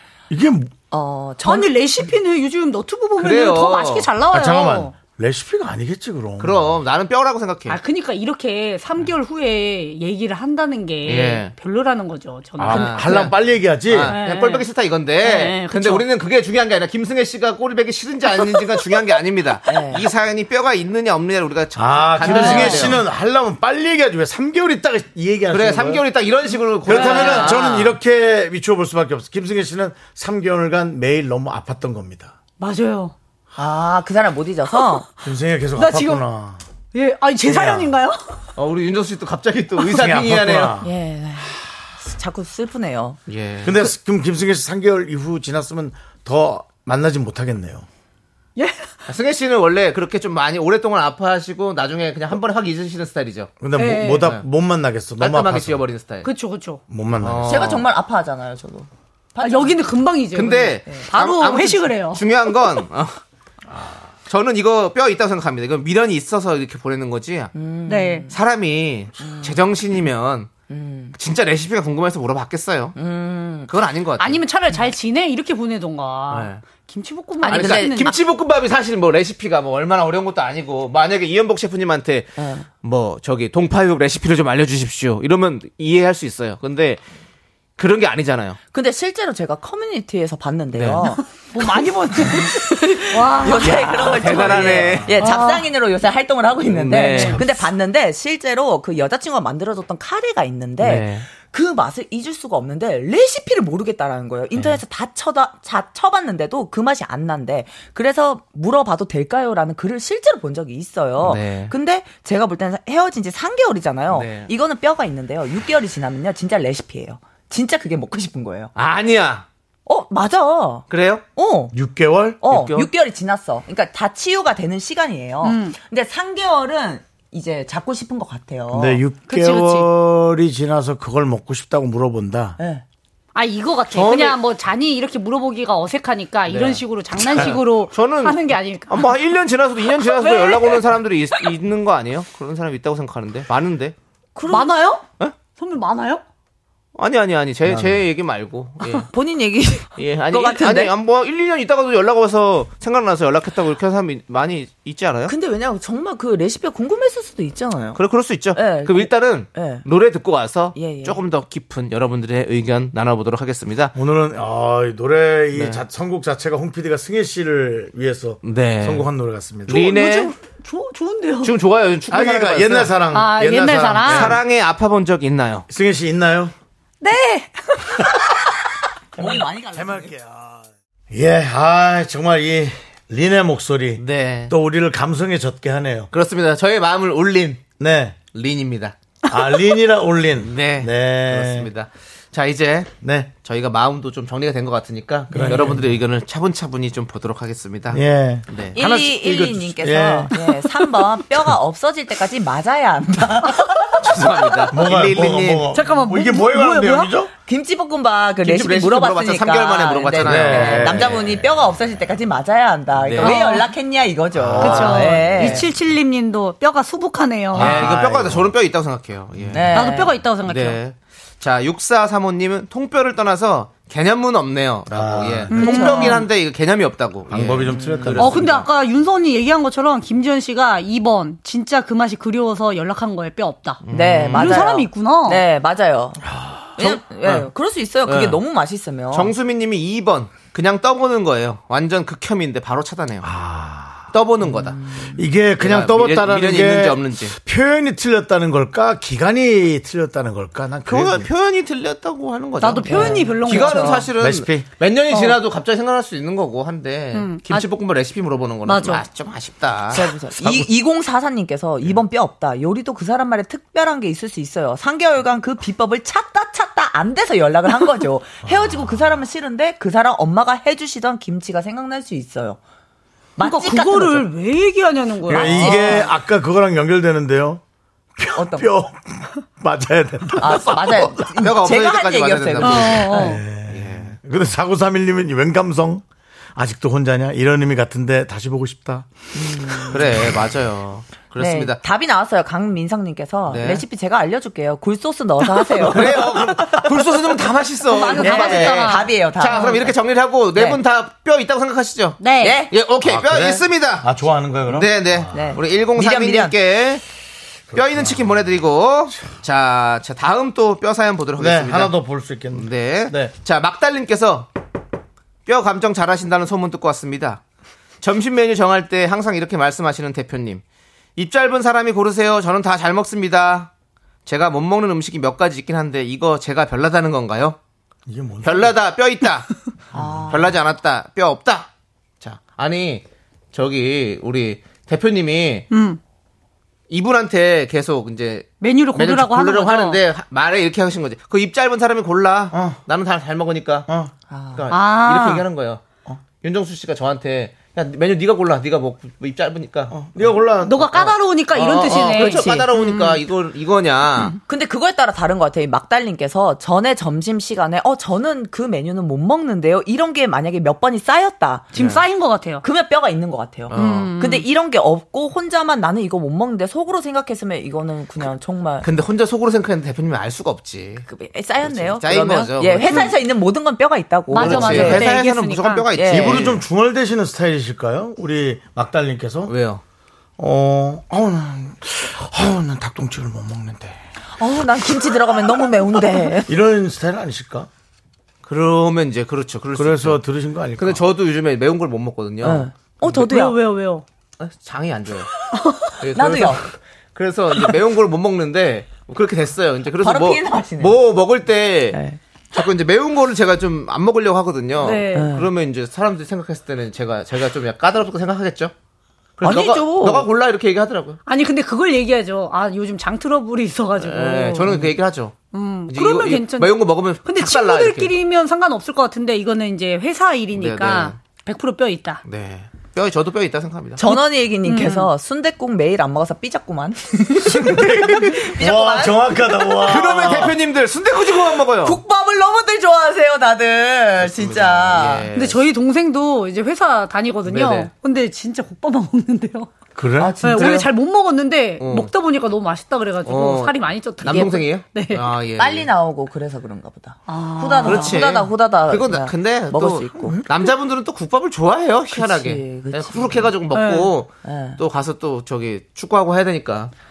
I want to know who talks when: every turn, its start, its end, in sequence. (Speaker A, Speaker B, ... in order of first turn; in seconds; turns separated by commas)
Speaker A: 0.3-0.7, Speaker B: 0.9-1.8, Speaker C: 1.4-4.9, Speaker D: 3.2-4.1, Speaker A: 4.3-6.7, Speaker D: 6.4-7.8, Speaker C: 7.7-13.1, Speaker D: 11.1-11.5, Speaker A: 12.6-14.2, Speaker D: 12.6-23.0, Speaker C: 14.1-14.7, Speaker C: 15.2-16.1, Speaker B: 19.7-20.1, Speaker A: 21.8-26.0, Speaker C: 22.2-22.9, Speaker D: 25.5-27.9, Speaker A: 26.9-32.3, Speaker C: 26.9-27.5, Speaker C: 32.6-33.1, Speaker B: 33.6-35.1, Speaker A: 35.2-36.6, Speaker C: 35.8-36.2, Speaker C: 36.9-38.2, Speaker A: 37.4-37.9, Speaker D: 38.6-40.7, Speaker A: 39.9-40.9, Speaker B: 40.8-43.2, Speaker D: 43.3-43.8, Speaker A: 43.6-47.9, Speaker C: 48.6-48.9, Speaker D: 49.1-53.5, Speaker A: 53.6-55.8, Speaker C: 53.8-54.3, Speaker D: 54.2-54.5, Speaker D: 55.2-56.3, Speaker C: 56.2-56.8, Speaker A: 56.9-57.8, Speaker D: 57.2-57.9, Speaker B: 57.5-59.8, Speaker C: 59.4-62.2, Speaker D: 60.3-63.2, Speaker D: 64.3-67.5, Speaker B: 67.5-68.3, Speaker C: 67.9-68.2, Speaker D: 68.3-70.5, Speaker B: 69.2-69.6, Speaker B: 70.7-71.2, Speaker D: 71.2-73.0, Speaker B: 73.0-73.7, Speaker D: 73.7-74.4, Speaker C: 74.2-78.1, Speaker D: 76.3-76.6, Speaker B: 77.4-78.1, Speaker D: 77.5-87.0, Speaker B: 82.4-82.7, Speaker D: 87.8-88.6, Speaker B: 88.7-91.5, Speaker D: 90.7-91.1, Speaker C: 91.3-93.8, Speaker B: 92.3-118.7, Speaker D: 93.5-95.2, Speaker A: 94.4-95.1, Speaker C: 95.2-95.7, Speaker D: 96.7-97.5, Speaker C: 97.1-97.3, Speaker D: 100.8-101.2, Speaker D: 111.2-111.7, Speaker D: 114.1-114.5, Speaker D: 118.8-119.5, Speaker B: 119.9-121.7, Speaker D: 120.9-121.2, Speaker A: 121.7-122.4, Speaker B: 122.4-129.1, Speaker D: 122.5-122.9, Speaker C: 125.4-125.8, Speaker A: 128.7-132.6, Speaker C: 129.3-129.8, Speaker B: 132.6-132.8, Speaker C: 133.3-139.1, Speaker D: 133.9-134.4, Speaker D: 136.5-143.9, Speaker C: 139.8-140.9, Speaker B: 144.4-144.8, Speaker C: 144.5-146.2, Speaker D: 147.0-149.1, Speaker A: 147.7-147.9, Speaker B: 149.1-150.9, Speaker D: 150.0-155.3, Speaker B: 155.3-158.0, Speaker D: 158.0-163.9, Speaker B: 158.6-159.8, Speaker B: 160.8-161.2, Speaker A: 163.9-169.9, Speaker D: 165.5-165.8, Speaker D: 168.4-169.1, Speaker D: 169.7-170.3, Speaker C: 169.7-171.6, Speaker D: 171.4-173.0, Speaker A: 172.1-174.4, Speaker C: 173.1-174.4, Speaker D: 174.0-175.7, Speaker A: 175.7-176.5, Speaker C: 177.0-178.2, Speaker B: 179.2-180.1, Speaker A: 179.2-186.1, Speaker D: 184.0-184.5, Speaker D: 186.1-187.6, Speaker A: 187.8-188.2, Speaker D: 188.3-189.0, Speaker A: 189.3-191.7, Speaker D: 190.4-192.9, Speaker A: 193.0-193.3, Speaker D: 193.4-198.8, Speaker A: 195.3-195.9, Speaker B: 195.4-195.7, Speaker A: 197.9-200.4, Speaker B: 198.8-204.0, Speaker A: 200.9-201.4, Speaker D: 204.0-205.7, Speaker A: 204.7-207.3, Speaker C: 205.7-207.1, Speaker B: 207.4-215.6, Speaker D: 208.4-211.4, Speaker A: 210.2-211.4, Speaker D: 213.0-213.6, Speaker C: 213.2-213.7, Speaker A: 214.3-215.7, Speaker C: 214.6-217.8, Speaker A: 217.5-218.5, Speaker D: 217.5-219.8, Speaker B: 219.5-220.1, Speaker C: 219.8-220.8, Speaker D: 220.5-227.8, Speaker A: 224.9-225.9, Speaker C: 225.5-226.2, Speaker B: 225.7-226.2, Speaker A: 227.3-228.7, Speaker B: 227.7-228.4, Speaker C: 228.2-235.4, Speaker D: 233.8-234.8, Speaker B: 233.9-236.2, Speaker A: 236.3-236.9, Speaker B: 236.8-239.3, Speaker D: 236.8-237.5, Speaker D: 238.1-238.4, Speaker D: 239.1-243.3, Speaker A: 243.2-244.1, Speaker D: 244.1-244.8, Speaker B: 244.5-245.2, Speaker A: 245.1-251.3, Speaker D: 245.6-247.4, Speaker D: 250.9-260.7, Speaker C: 252.6-254.0, Speaker B: 252.9-254.0, Speaker A: 254.2-254.7, Speaker C: 255.1-255.4, Speaker C: 257.1-257.7, Speaker C: 258.7-259.0, Speaker B: 259.9-272.6, Speaker A: 268.6-268.8, Speaker B: 273.4-274.3, Speaker C: 273.4-275.9, Speaker A: 275.3-277.6, Speaker B: 275.3-276.1, Speaker A: 278.2-281.2, Speaker B: 278.4-278.7, Speaker B: 280.4-283.4, Speaker D: 281.2-284.1, Speaker C: 282.6-283.4, Speaker A: 283.1-286.0, Speaker A: 286.6-289.1, Speaker B: 289.4-290.0, Speaker D: 289.8-291.8, Speaker B: 291.4-297.0, Speaker D: 293.5-293.8, Speaker D: 295.7-302.2, Speaker C: 297.9-299.1, Speaker B: 298.2-299.9, Speaker B: 300.5-300.8, Speaker C: 302.2-302.6, Speaker B: 302.4-302.7, Speaker D: 302.7-304.1, Speaker A: 303.0-305.4, Speaker D: 304.7-307.0, Speaker B: 305.3-306.5, Speaker A: 307.7-308.5, Speaker D: 307.7-311.9, Speaker A: 311.4-313.3, Speaker D: 312.5-314.5, Speaker D: 315.5-317.4, Speaker D: 318.0-320.6, Speaker D: 321.2-323.7, Speaker D: 324.3-327.6, Speaker A: 328.1-328.7, Speaker D: 328.4-329.5, Speaker A: 329.9-330.4, Speaker B: 330.0-330.5, Speaker D: 330.0-331.7, Speaker D: 332.2-335.7, Speaker C: 335.7-336.0, Speaker D: 336.9-343.9, Speaker C: 338.6-340.0, Speaker A: 342.5-342.8, Speaker A: 343.9-344.1, Speaker B: 344.3-344.6, Speaker D: 344.5-345.8, Speaker C: 344.7-345.5, Speaker D: 346.4-350.0, Speaker A: 349.9-351.1, Speaker C: 350.6-352.7, Speaker D: 350.9-354.4, Speaker B: 352.2-353.2, Speaker B: 354.5-361.8, Speaker C: 361.7-362.6, Speaker D: 361.8-362.0, Speaker B: 362.6-368.9, Speaker D: 363.7-364.2, Speaker C: 363.7-364.5, Speaker D: 368.8-371.1, Speaker B: 371.1-375.1, Speaker D: 371.6-373.1, Speaker C: 374.3-375.9, Speaker D: 374.4-376.6, Speaker B: 375.9-376.5, Speaker A: 376.1-379.5, Speaker D: 379.5-379.8, Speaker A: 380.4-384.0, Speaker B: 384.4-386.5, Speaker A: 386.5-387.7, Speaker D: 388.4-390.2, Speaker A: 389.8-391.1, Speaker D: 390.8-392.7, Speaker B: 392.4-393.7, Speaker C: 393.1-394.1, Speaker D: 394.4-395.3, Speaker C: 395.6-395.9, Speaker D: 396.0-402.0, Speaker B: 396.1-396.6, Speaker B: 399.9-401.0, Speaker B: 401.9-402.2, Speaker D: 402.5-408.7, Speaker C: 404.8-405.3, Speaker B: 405.1-405.5, Speaker D: 409.4-411.2, Speaker B: 409.4-410.3, Speaker C: 411.3-414.8, Speaker D: 414.0-415.4, Speaker C: 415.5-422.2, Speaker D: 415.9-418.1, Speaker D: 420.5-421.2, Speaker D: 422.2-424.0, Speaker B: 424.0-429.9, Speaker C: 424.1-425.1, Speaker A: 427.4-430.6, Speaker D: 429.8-432.0, Speaker B: 431.8-435.3, Speaker D: 434.2-435.6, Speaker C: 435.3-439.7, Speaker D: 437.5-437.9, Speaker A: 440.0-440.4, Speaker B: 440.2-440.9, Speaker C: 440.4-445.3, Speaker D: 440.5-440.8, Speaker D: 441.8-442.1, Speaker D: 443.2-445.9, Speaker B: 445.6-450.5, Speaker C: 447.3-448.1, Speaker D: 447.8-456.9, Speaker B: 452.1-453.5, Speaker C: 453.7-454.1, Speaker B: 454.4-454.8